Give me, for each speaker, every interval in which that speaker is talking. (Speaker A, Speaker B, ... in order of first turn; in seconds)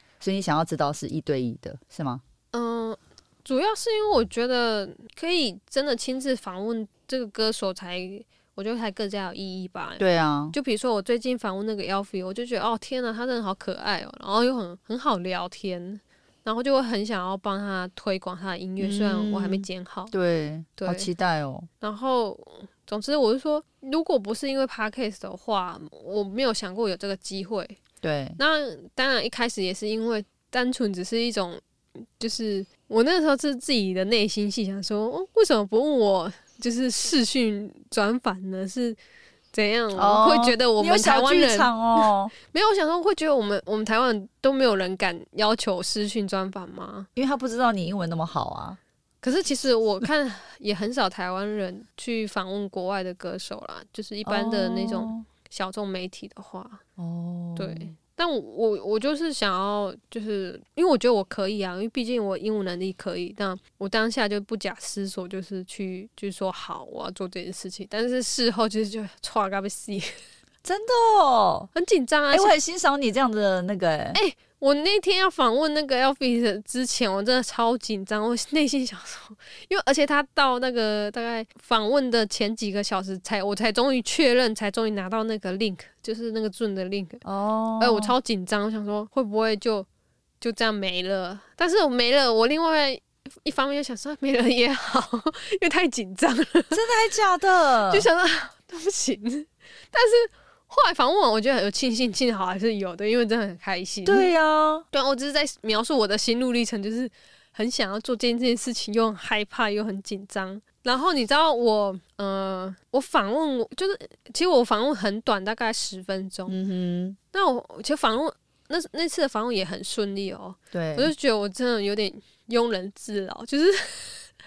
Speaker A: 0.2-2.2, 10.0-10.5, 18.8-21.7, 28.0-28.4, 39.9-42.3, 47.1-48.8, 54.2-55.3, 57.0-57.9, 70.6-71.7, 72.3-74.2, 87.2-88.1, 96.7-98.1, 104.0-104.8, 116.5-117.2, 120.7-121.1
Speaker B: 2.5-20.1, 20.8-21.1, 21.8-27.8, 28.4-39.0, 39.5-47.1, 49.2-56.8, 57.5-70.2, 71.7-72.5, 74.1-87.2, 87.8-89.9, 90.4-96.8, 97.9-104.3, 104.9-116.6, 117.3-124.3